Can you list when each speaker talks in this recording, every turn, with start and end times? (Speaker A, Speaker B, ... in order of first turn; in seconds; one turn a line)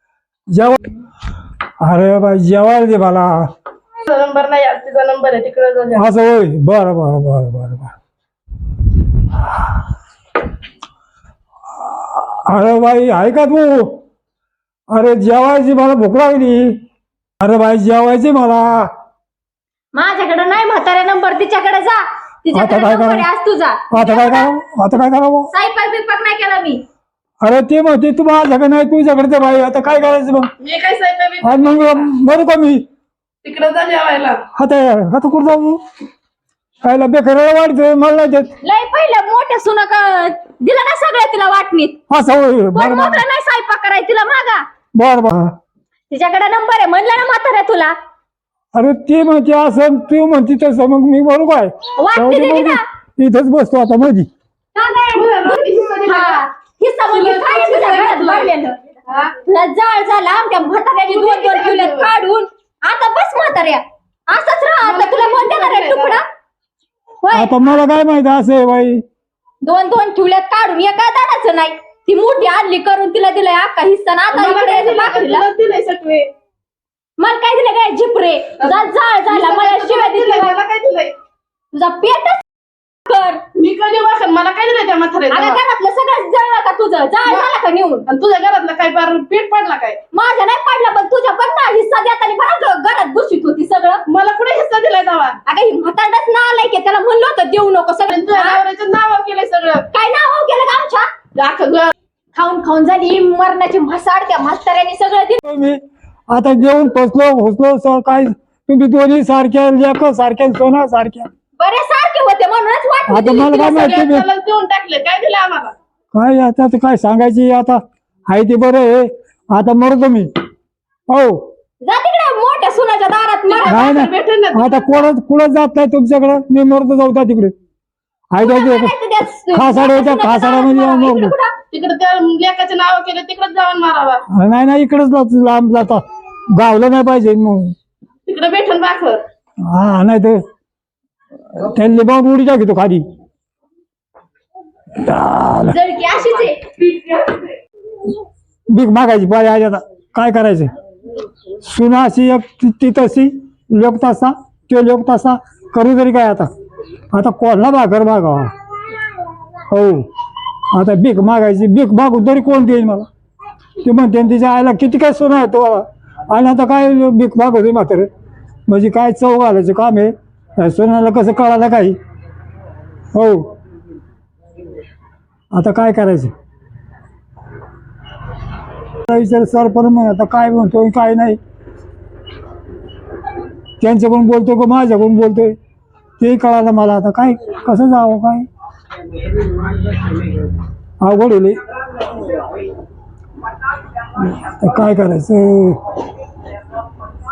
Speaker A: 0.5-0.8
Speaker A: 1.8-3.5
Speaker B: 4.1-6.1
Speaker A: 5.9-7.9
Speaker A: 11.8-14.0
Speaker A: 14.9-16.8
Speaker A: 17.4-18.9
Speaker C: 19.9-24.5
Speaker A: 22.5-23.3
Speaker A: 23.9-25.5
Speaker C: 25.5-26.8
Speaker A: 27.4-30.5
Speaker B: 30.6-32.1
Speaker A: 31.4-32.8
Speaker B: 33.4-34.4
Speaker A: 34.6-35.8
Speaker A: 36.8-38.5
Speaker C: 38.6-42.0
Speaker A: 42.1-43.2
Speaker C: 42.7-44.6
Speaker A: 44.9-45.5
Speaker C: 46.1-47.9
Speaker A: 48.7-54.3
Speaker C: 52.0-52.8
Speaker C: 54.7-58.8
Speaker B: 55.1-56.4
Speaker B: 57.1-58.5
Speaker B: 59.1-59.3
Speaker C: 59.4-66.2
Speaker B: 61.1-62.1
Speaker B: 64.8-66.2
Speaker C: 67.2-67.7
Speaker A: 67.3-69.0
Speaker C: 69.6-75.5
Speaker B: 74.3-76.3
Speaker C: 77.2-80.6
Speaker B: 78.6-81.1
Speaker C: 81.7-82.4
Speaker C: 83.1-83.4
Speaker B: 83.5-85.6
Speaker C: 85.3-88.0
Speaker B: 87.2-87.5
Speaker B: 88.1-90.0
Speaker C: 90.1-94.0
Speaker B: 94.1-95.3
Speaker C: 95.4-98.6
Speaker B: 98.1-99.8
Speaker C: 99.9-101.1
Speaker B: 101.3-101.9
Speaker C: 102.3-105.4
Speaker A: 105.4-111.3
Speaker C: 111.6-113.7
Speaker A: 113.1-114.2
Speaker B: 113.3-115.7
Speaker A: 116.1-120.3
Speaker A: 121.1-121.4
Speaker C: 121.8-123.9
Speaker B: 123.5-125.1
Speaker A: 123.7-127.5
Speaker A: 128.3-128.9
Speaker C: 128.4-131.6
Speaker A: 129.5-131.3
Speaker B: 131.7-134.2
Speaker A: 134.3-136.0
Speaker A: 136.5-137.7
Speaker B: 138.3-139.2
Speaker A: 139.7-140.4
Speaker A: 141.6-143.0
Speaker A: 145.0-145.8
Speaker C: 145.7-146.8
Speaker A: 148.7-150.7
Speaker A: 151.6-156.5
Speaker A: 157.1-158.5
Speaker A: 159.7-160.1
Speaker A: 160.7-163.1
Speaker A: 163.8-168.1
Speaker A: 168.7-172.0
Speaker A: 173.1-173.5
Speaker A: 175.5-176.3
Speaker A: 179.1-181.4
Speaker A: 183.8-185.6
Speaker A: 186.2-188.5
Speaker A: 191.0-191.6
Speaker A: 194.2-195.8